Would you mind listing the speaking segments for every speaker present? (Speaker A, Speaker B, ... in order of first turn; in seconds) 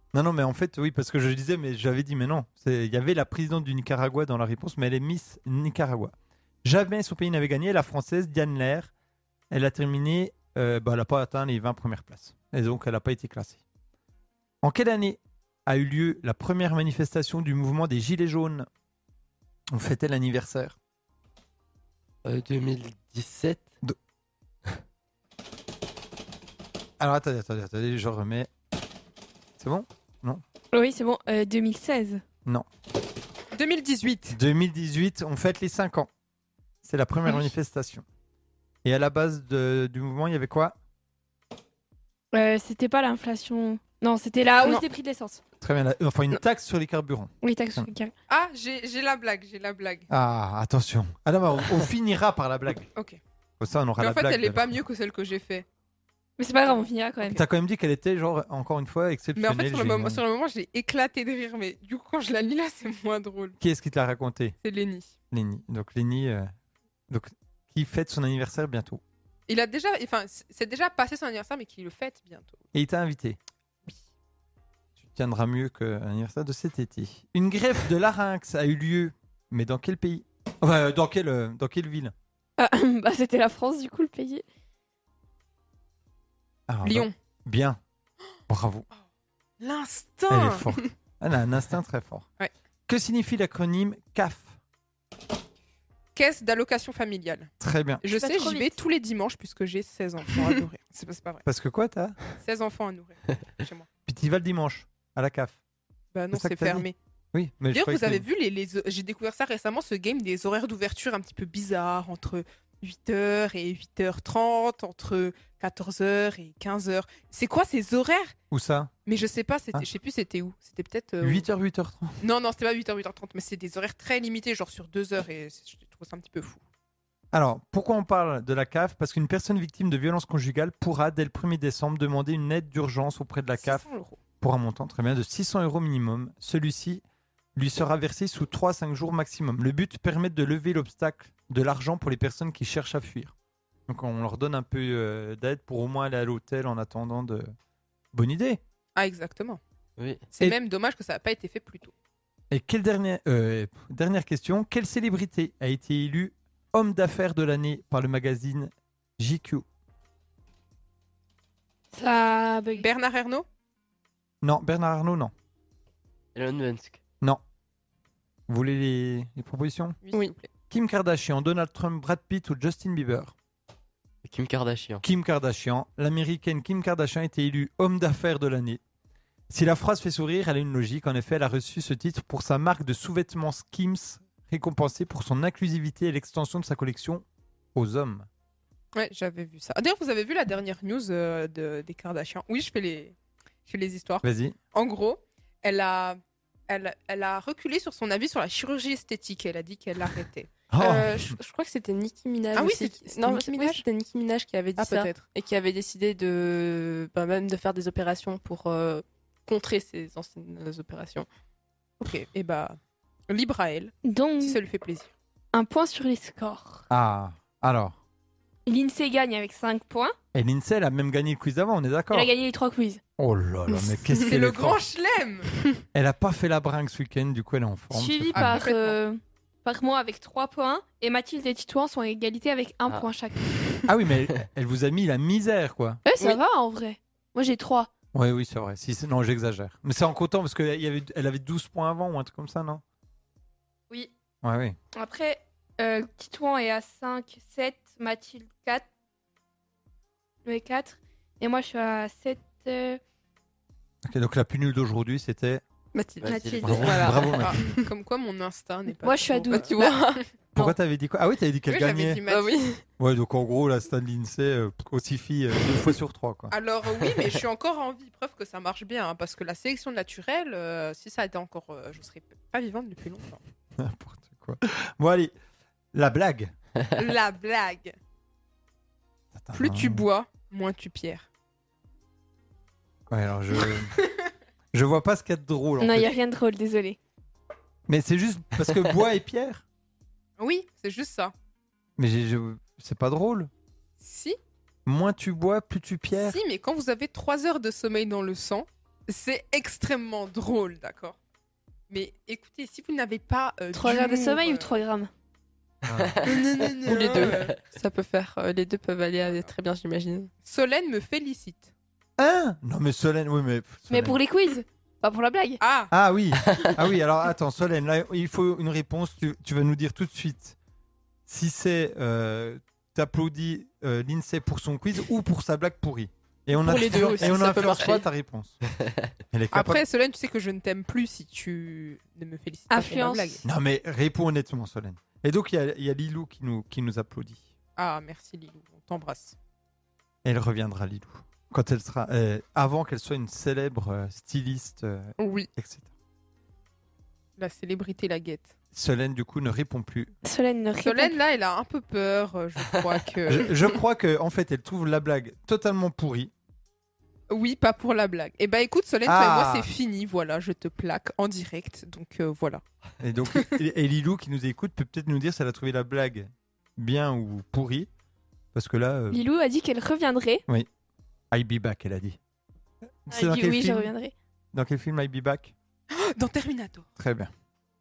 Speaker A: 0.1-8.9, 9.5-13.6, 14.6-18.7, 19.7-20.8, 27.0-28.5, 29.6-30.4, 34.3-36.1, 36.8-38.0, 38.8-40.8, 45.6-47.9, 50.1-52.9, 53.6-54.8, 57.2-60.2, 63.6-64.5, 65.3-66.5, 67.1-69.0, 72.7-73.4, 75.0-82.1, 86.7-87.8, 88.5-88.9, 90.3-92.3, 92.9-94.6, 97.6-98.0, 101.5-102.2, 104.1-105.6, 106.3-108.3, 118.5-118.9, 121.2-122.2, 127.3-133.8, 134.4-137.0, 137.6-143.3, 143.9-147.5, 148.1-148.6, 152.5-159.7, 164.4-165.3, 168.5-170.0, 170.7-173.3, 175.0-178.8, 179.5-187.2, 187.8-188.3, 194.2-194.6, 200.7-201.4, 216.9-218.0, 220.3-222.3, 223.2-224.8, 225.9-228.6, 233.9-236.0, 238.1-242.8, 244.4-244.8, 254.1-255.6, 256.6-257.6, 260.5-262.2, 263.0-266.6, 273.8-275.3, 275.9-276.5, 279.3-280.1, 283.1-283.9, 284.7-286.1, 287.9-289.6, 292.0-293.5, 294.9-296.4, 305.9-306.2, 312.2-314.2, 315.9-320.6, 321.3-328.6, 329.3-329.8, 333.4-337.5, 340.2-345.9, 348.7-350.1, 353.3-356.3, 359.1-359.7, 363.0-367.9, 368.5-369.2, 371.3-372.2, 373.1-373.9, 374.5-375.5, 377.0-377.3
Speaker B: 22.2-23.7, 150.0-150.2, 166.3-167.0, 174.2-175.0, 256.2-257.0, 305.9-307.6, 316.5-316.8, 328.7-329.1
Speaker C: 30.7-32.2, 42.3-45.4, 47.4-48.1, 56.4-57.4, 82.6-84.4, 98.1-98.7, 161.9-162.9, 214.0-214.6, 215.5-216.8, 218.7-220.2, 222.1-223.0, 227.9-233.5, 236.1-237.9, 244.9-248.9, 250.4-253.0, 256.2-257.1, 259.0-260.0, 285.8-287.0, 303.7-305.1, 313.9-315.6, 326.8-327.4, 332.7-333.4, 350.2-351.2, 369.1-370.4, 373.1-374.1
Speaker D: 33.5-34.4, 48.3-50.1, 53.0-53.2, 54.0-55.7, 59.4-63.6, 64.6-65.2, 69.5-72.6, 86.8-87.1, 89.6-90.9, 96.2-97.5, 98.0-101.4, 102.4-103.9, 106.1-107.0, 107.7-118.3, 119.1-121.5, 122.2-126.6, 133.6-134.2, 149.0-149.6, 150.3-151.9, 162.8-163.4, 170.0-170.5, 188.9-193.2, 193.7-200.6, 202.6-203.8, 204.8-205.2, 212.0-212.8, 213.3-215.1, 224.2-225.5, 228.3-229.0, 257.4-260.2, 261.7-262.6, 266.5-273.4, 276.9-278.0, 279.5-281.3, 290.4-291.3, 294.0-294.4, 296.2-301.2, 301.9-304.8, 306.2-307.5, 310.4-311.7, 315.6-315.9, 329.5-333.4, 337.8-339.4, 345.2-345.5, 347.4-348.5, 350.8-353.8, 357.3-362.6, 375.9-376.9
Speaker E: 200.8-211.3, 223.8-224.2, 255.9-257.9, 259.5-260.2, 262.3-262.8, 306.8-310.3, 326.6-328.1